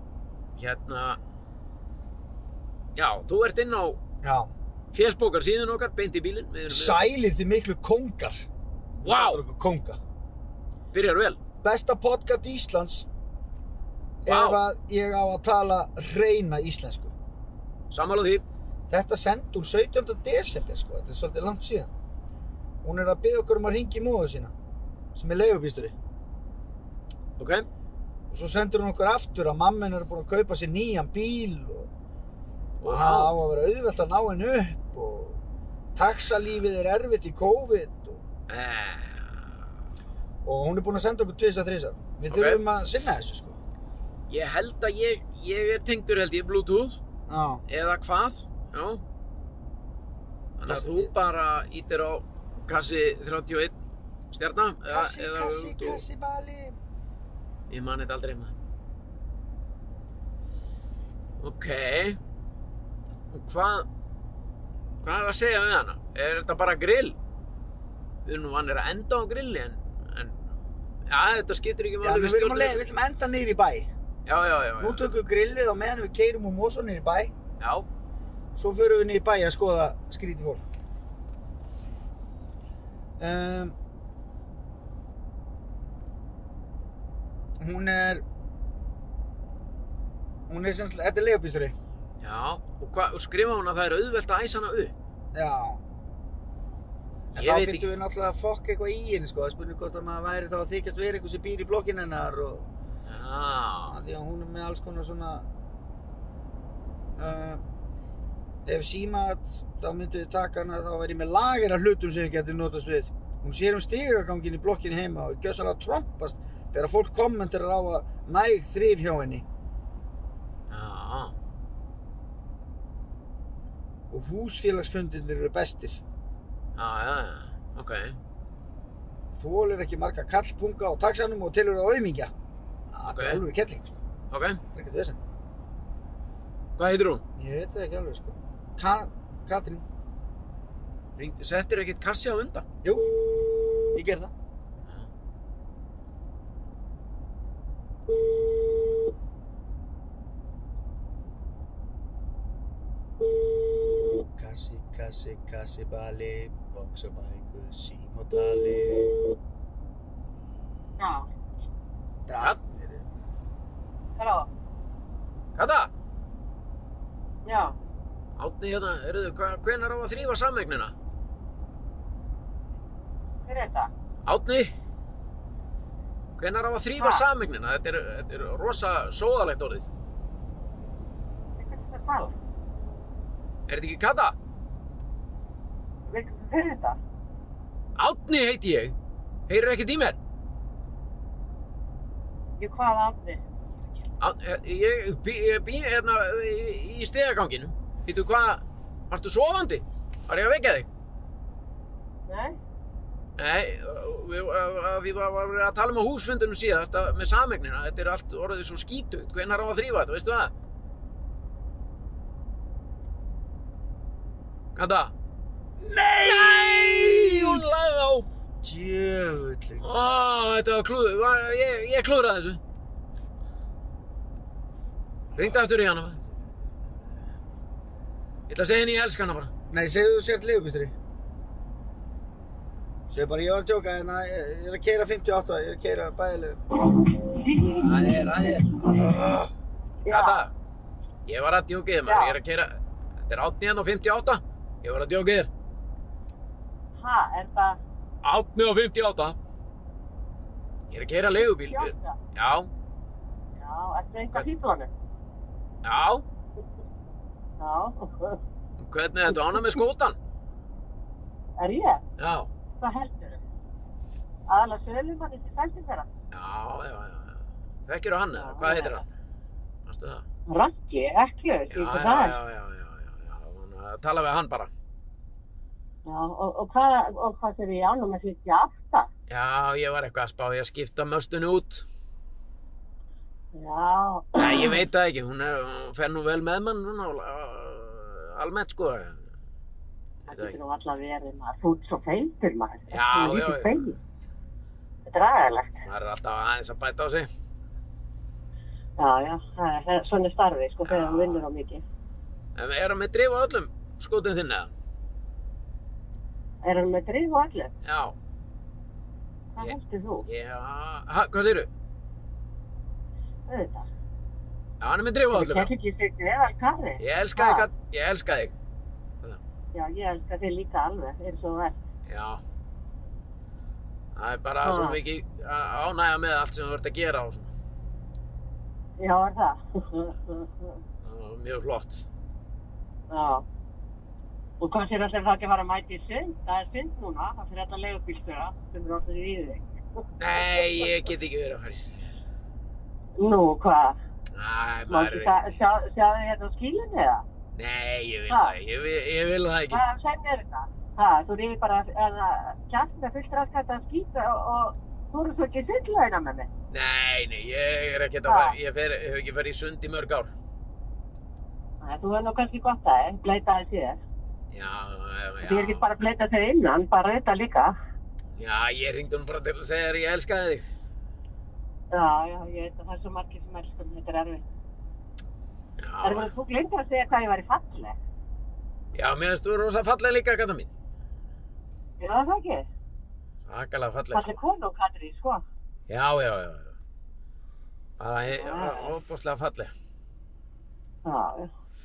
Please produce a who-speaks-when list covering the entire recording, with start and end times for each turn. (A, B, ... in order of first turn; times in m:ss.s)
0:00.6-0:01.2 A
0:03.0-0:04.0 A
0:04.2-0:04.5 B
0:04.9-0:07.0 A
0:06.7-0:08.5 B
0:09.0-0:10.0 B
0:09.0-0:09.4 A
0:10.9-0:11.4 A
0:11.6-0:13.1 B
0:14.2-0:17.1 B
0:14.3-0:14.6 A
0:17.9-0:18.4 A
0:18.9-0:21.9 B
0:22.8-0:24.5 B
0:25.1-0:25.9 B
0:27.4-0:27.7 A
0:28.3-0:31.9 B
0:32.8-0:33.3 A
0:32.9-0:35.4 B
0:36.0-0:38.2 B
0:38.5-0:39.5 A
0:40.4-0:43.6 B
0:42.3-0:42.6 A
0:44.3-0:47.0 A
0:47.3-0:47.6 B
0:47.7-0:49.0 A
0:50.6-0:53.8 A
0:50.6-0:51.1 B
0:54.3-0:56.0 A
0:54.9-0:56.8 B
0:57.7-0:58.5 A
1:01.4-1:02.2 A
1:03.3-1:03.9 A
1:05.0-1:07.2 A
1:08.2-1:10.4 A
1:11.0-1:12.9 A
1:12.0-1:13.9 B
1:14.2-1:15.0 A
1:14.8-1:17.3 B
1:17.6-1:17.9 A
1:18.5-1:20.6 B
1:23.2-1:23.7 B
1:27.6-1:28.2 B
1:30.5-1:31.8 B
1:32.2-1:34.9 A
1:35.3-1:35.8 B
1:37.3-1:42.7 B
1:37.4-1:37.9 A
1:43.1-1:44.0 A
1:43.9-1:45.5 B
1:47.2-1:47.6 B
1:48.6-1:59.4 B
2:00.7-2:01.3 A
2:04.1-2:06.0 B
2:06.8-2:08.2 A
2:09.3-2:12.3 B
2:12.9-2:13.9 B
2:13.1-2:13.4 A
2:14.3-2:14.6 A
2:14.7-2:15.2 B
2:16.8-2:17.2 A
2:17.4-2:19.8 B
2:21.2-2:22.6 A
2:22.8-2:24.3 B
2:28.3-2:28.8 B
2:33.9-2:39.3 B
2:41.0-2:41.3 C
2:42.3-2:43.1 B
2:44.2-2:44.5 C
2:45.5-2:45.9 A
2:47.4-2:47.8 C
2:48.4-2:50.9 A
2:53.4-2:53.9 C
2:54.2-2:54.7 A
2:56.4-2:59.9 A
2:57.0-2:57.2 C
3:01.6-3:02.3 C
3:03.7-3:04.4 A
3:06.0-3:07.0 C
3:08.0-3:08.9 A
3:09.5-3:10.2 A
3:12.6-3:13.4 C
3:14.2-3:20.9 A
3:22.3-3:22.6 C
3:23.4-3:30.5 A
3:34.7-3:35.1 A
3:35.8-3:37.6 B
3:36.2-3:38.3 A
3:38.6-3:39.8 B
3:39.8-3:42.6 A
3:45.3-3:45.6 B
3:45.4-3:46.2 A
3:48.5-3:49.5 A
3:49.7-3:50.9 B
3:53.1-3:56.6 B
3:57.3-3:58.1 C
3:57.6-3:59.0 A
3:58.8-3:59.5 B
4:00.0-4:00.4 C
4:00.1-4:00.5 A
4:01.2-4:05.5 A
4:02.0-4:02.4 C
4:07.0-4:07.8 C
4:08.2-4:09.4 A
4:10.9-4:12.7 A
4:11.3-4:12.2 C
4:13.6-4:14.9 C
4:15.8-4:16.2 A
4:17.6-4:18.4 C
4:18.8-4:20.2 A
4:21.6-4:22.0 C
4:22.2-4:22.5 A
4:22.8-4:23.4 C
4:24.5-4:26.1 C
4:26.3-4:29.0 A
4:28.4-4:29.0 C
4:29.8-4:30.2 A
4:30.5-4:32.4 C
4:31.7-4:34.7 A
4:36.0-4:39.1 C
4:39.3-4:41.8 A
4:43.5-4:44.8 C
4:44.4-4:49.2 A
4:50.3-4:54.0 C
4:50.3-4:50.6 A
4:52.9-4:53.9 A
4:55.0-4:55.8 C
4:55.8-4:57.3 A
4:59.0-5:01.8 C
5:00.8-5:01.4 A
5:02.6-5:04.7 A
5:06.6-5:07.7 C
5:07.8-5:08.1 A
5:09.5-5:10.2 C
5:09.6-5:11.7 A
5:13.5-5:13.9 C
5:14.8-5:15.7 A
5:15.3-5:17.7 C
5:17.0-5:18.5 A
5:19.7-5:21.8 C
5:22.1-5:22.4 A
5:24.1-5:27.5 A
5:24.6-5:25.0 C
5:29.0-5:30.8 C
5:31.0-5:32.0 A
5:33.1-5:33.4 C
5:34.6-5:40.0 C
5:40.2-5:42.1 A
5:40.5-5:40.9 C
5:43.2-5:44.0 C
5:44.3-5:45.6 A
5:44.9-5:47.2 C
5:47.6-5:49.8 A
5:48.3-5:48.6 C
5:49.7-5:56.5 C
5:56.7-6:00.3 A
5:58.2-5:58.5 C
6:01.8-6:04.0 C
6:04.5-6:05.8 A
6:05.4-6:07.7 C
6:08.4-6:10.6 A
6:11.9-6:14.4 C
6:15.8-6:16.3 A
6:16.0-6:18.0 C
6:18.9-6:20.7 A
6:22.0-6:22.6 C
6:23.4-6:24.4 A
6:24.1-6:25.4 C
6:25.9-6:26.7 A
6:28.0-6:29.7 A
6:28.3-6:28.9 C
6:31.0-6:31.5 C